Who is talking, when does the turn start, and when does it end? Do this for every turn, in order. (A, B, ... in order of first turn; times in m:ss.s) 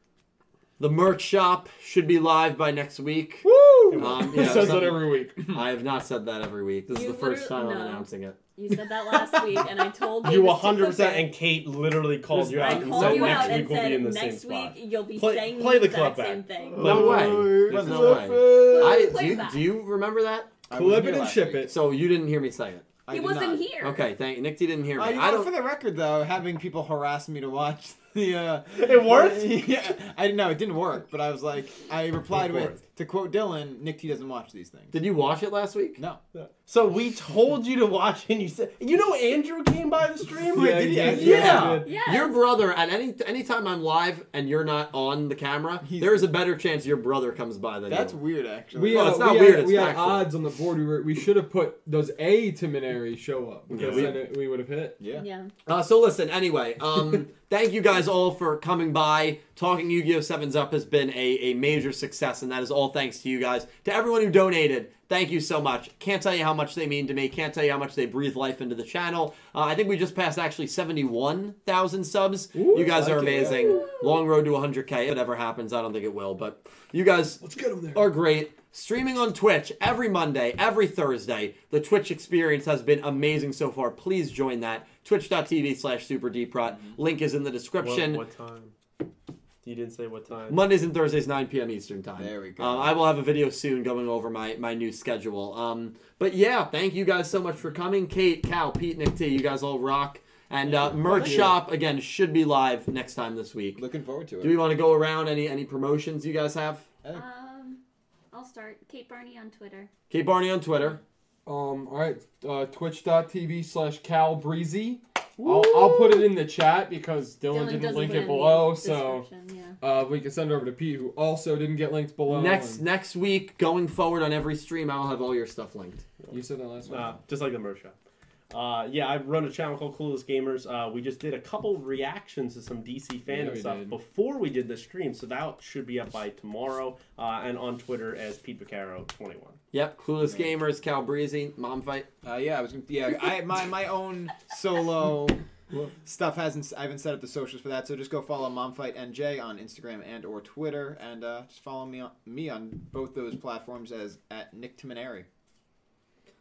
0:00.8-0:08.4 A
0:03.4-0:05.5 B
0:03.9-0:04.8 C
0:06.9-0:11.3 D
0:10.2-0:17.8 C
0:12.3-0:13.4 B
0:12.6-0:17.2 D
0:12.8-0:13.7 A
0:16.8-0:20.5 A
0:16.8-0:19.4 B
0:16.8-0:18.4 E
0:18.4-0:19.7 D
0:20.7-0:21.7 E
0:20.7-0:21.7 B
0:21.7-0:22.9 A
0:23.0-0:23.8 E
0:23.1-0:24.0 D
0:23.8-0:25.5 A
0:24.9-0:35.0 E
0:28.8-0:29.7 C
0:32.3-0:32.8 C
0:34.9-0:36.0 A
0:36.4-0:41.8 C
0:40.5-0:42.0 B
0:41.0-0:41.8 E
0:41.1-0:48.2 A
0:41.8-0:42.5 D
0:45.8-0:46.3 E
0:47.9-0:49.3 E
0:48.7-0:55.0 B
0:48.9-0:50.3 A
0:53.7-0:54.2 C
0:53.8-0:54.3 A
0:55.0-0:55.3 E
0:55.1-0:55.5 D
0:55.7-1:28.2 A
1:12.5-1:13.9 B
1:12.7-1:13.9 E
1:17.4-1:18.1 B
1:26.7-1:27.0 E
1:27.8-1:28.7 C
1:29.6-1:30.6 C
1:30.5-1:43.8 A
1:32.2-1:32.9 E
1:40.9-1:41.6 B
1:43.8-1:44.6 E
1:44.4-1:46.9 A
1:47.1-1:49.9 D
1:50.1-1:51.0 A
1:51.5-1:59.3 B
1:55.4-1:56.3 C
1:57.5-1:59.8 D
1:59.8-2:02.8 B
2:02.3-2:06.1 A
2:06.3-2:07.2 B
2:06.9-2:08.0 C
2:08.5-2:19.6 C
2:13.3-2:14.0 B
2:19.7-2:22.1 A
2:22.2-2:25.4 E
2:26.0-2:35.3 E